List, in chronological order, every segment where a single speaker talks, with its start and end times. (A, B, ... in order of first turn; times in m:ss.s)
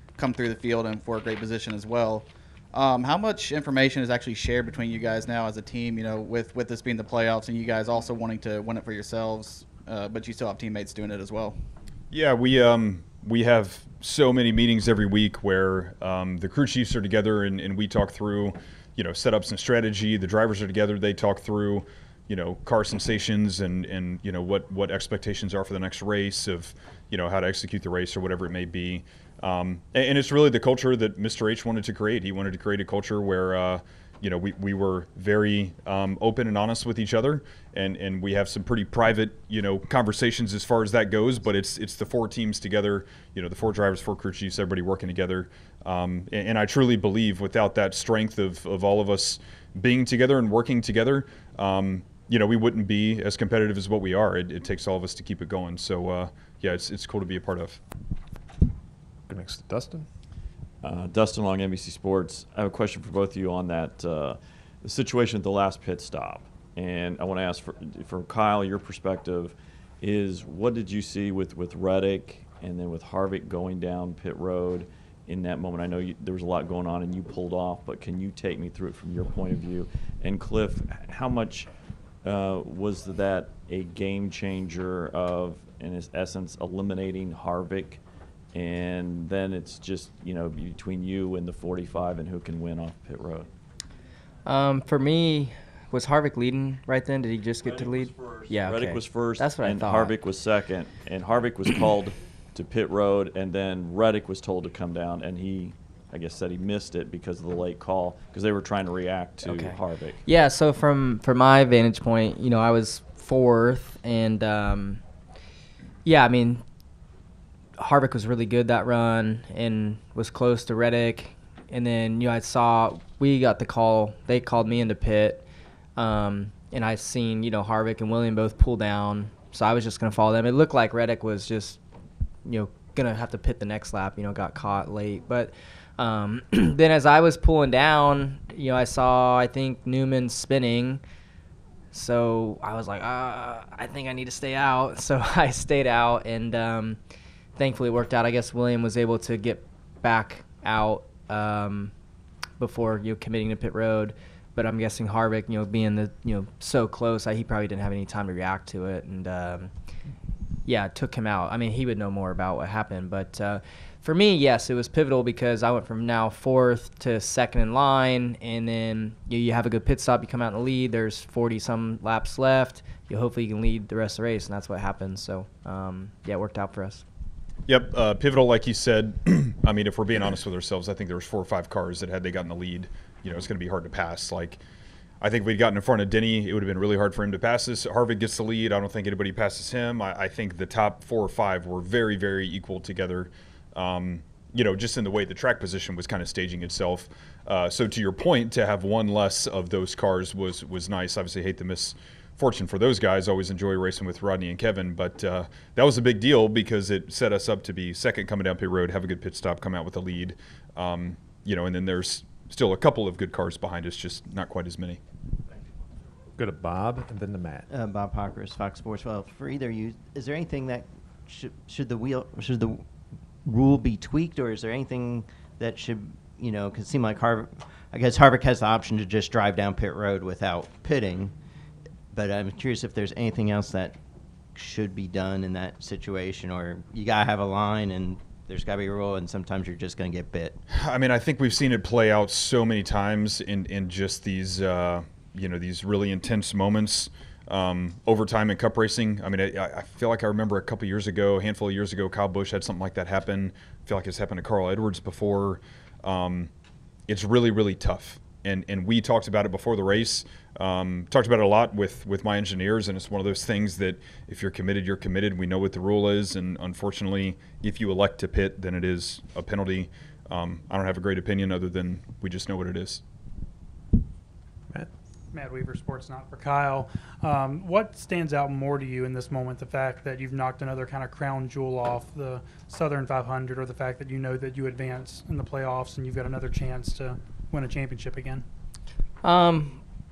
0:00.2-0:11.6 A
0:12.1-0:57.8 B
0:59.3-1:00.0 C
1:00.8-1:21.7 D
1:22.2-1:28.0 D
1:28.5-1:33.5 D
1:34.4-1:40.1 E
1:37.6-1:50.2 D
1:49.4-1:55.0 E
1:56.0-1:56.6 E
1:57.8-2:11.8 E
2:12.4-2:21.0 E
2:21.9-2:27.0 E
2:27.6-2:31.9 E
2:32.6-2:39.7 E
2:40.6-2:57.0 E
2:57.7-3:04.6 B
3:05.2-3:35.0 B
3:36.4-3:37.6 C
3:37.7-3:42.8 F
3:43.4-3:51.3 F
3:52.1-3:54.0 F
3:54.5-4:00.6 F
4:00.7-4:16.5 B
4:17.1-4:33.0 B
4:35.3-4:48.4 G
4:49.2-4:49.8 E